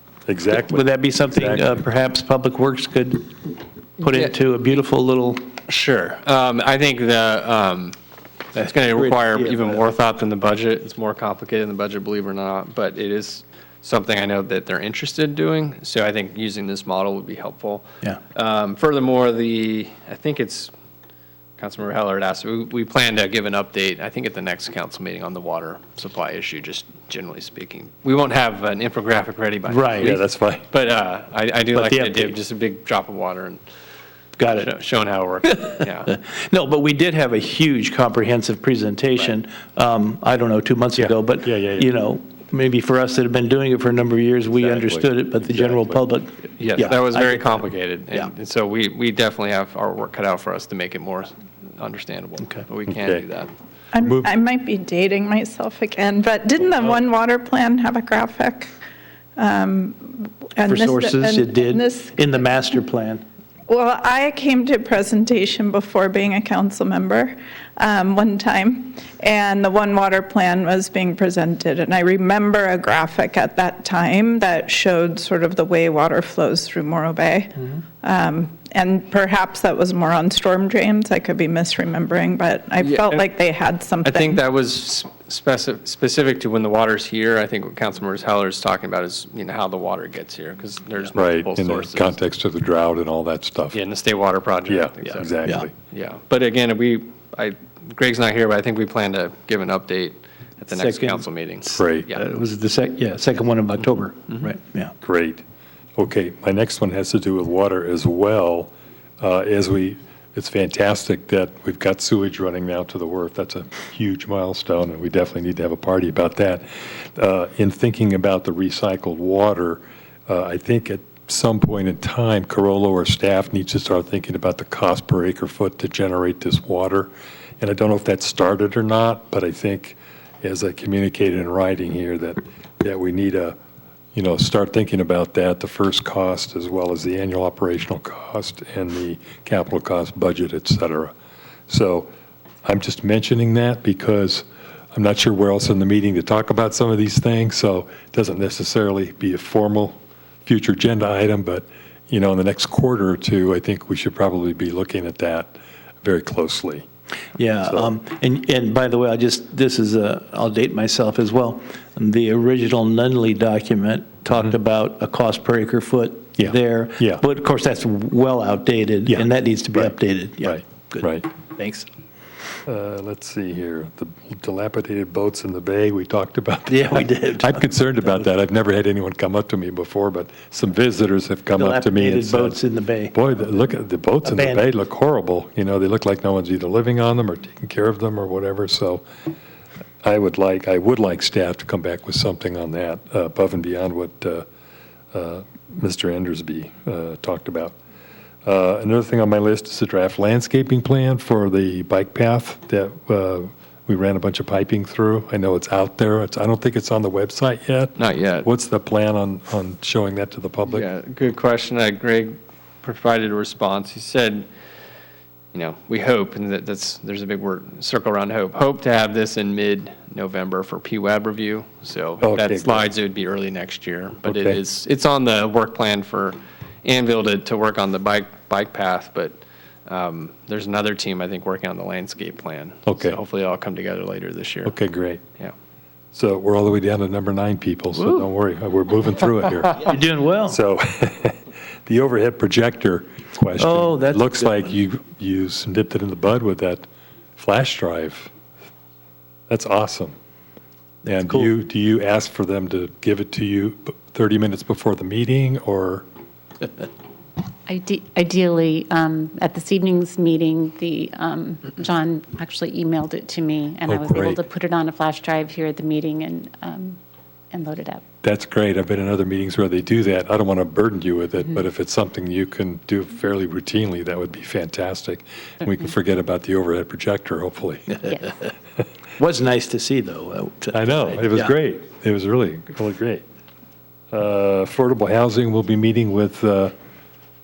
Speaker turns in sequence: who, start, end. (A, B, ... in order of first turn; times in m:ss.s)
0:00.3-0:01.8 A
0:00.6-0:05.5 B
0:05.7-0:08.0 C
0:08.6-0:09.8 B
0:08.6-0:20.7 C
0:21.6-0:33.6 C
0:29.7-0:30.2 B
0:30.0-0:30.6 A
0:31.7-0:32.4 B
0:34.4-0:34.7 B
0:34.5-0:36.1 C
0:35.5-0:48.3 B
0:41.0-0:41.9 A
0:44.5-0:46.0 A
0:46.6-0:53.5 C
0:52.9-0:53.2 A
0:53.9-0:58.7 D
0:54.0-0:54.3 A
0:59.4-1:02.2 D
1:00.7-1:03.2 B
1:03.7-1:24.4 D
1:22.8-1:23.3 C
1:24.0-1:32.2 C
1:31.2-1:33.8 A
1:33.7-1:35.3 C
1:34.7-1:35.7 A
1:35.9-1:42.2 C
1:40.7-1:41.2 B
1:41.7-1:42.1 A
1:42.1-1:44.9 B
1:45.0-1:45.4 A
1:46.0-2:13.6 A
2:14.1-2:21.1 A
2:21.7-2:22.1 A
2:22.6-2:36.8 A
2:37.4-2:51.9 B
2:37.6-2:37.9 A
2:46.4-2:47.2 A
2:49.1-2:51.2 A
2:52.7-3:02.6 A
2:56.7-2:58.2 B
3:01.6-3:03.2 B
3:03.1-3:09.0 A
3:04.2-3:04.6 B
3:10.0-3:14.5 A
3:15.1-3:17.8 A
3:18.4-3:30.9 A
3:28.0-3:28.5 C
3:30.7-3:34.5 C
3:35.5-3:54.8 C
3:42.2-3:42.9 A
3:44.2-3:44.6 A
3:52.9-3:53.2 A
3:54.6-3:55.2 A
3:56.1-4:06.8 A
3:59.8-4:00.6 B
4:03.6-4:04.7 B
4:07.4-4:08.3 A
4:09.5-4:10.2 A
4:11.0-4:16.1 A
4:11.1-4:11.5 B
4:17.7-4:27.0 E
4:23.9-4:24.4 A
4:27.5-4:28.0 E
4:28.2-4:38.0 A
4:39.2-4:41.5 B
4:40.7-4:43.2 A
4:44.1-4:46.7 A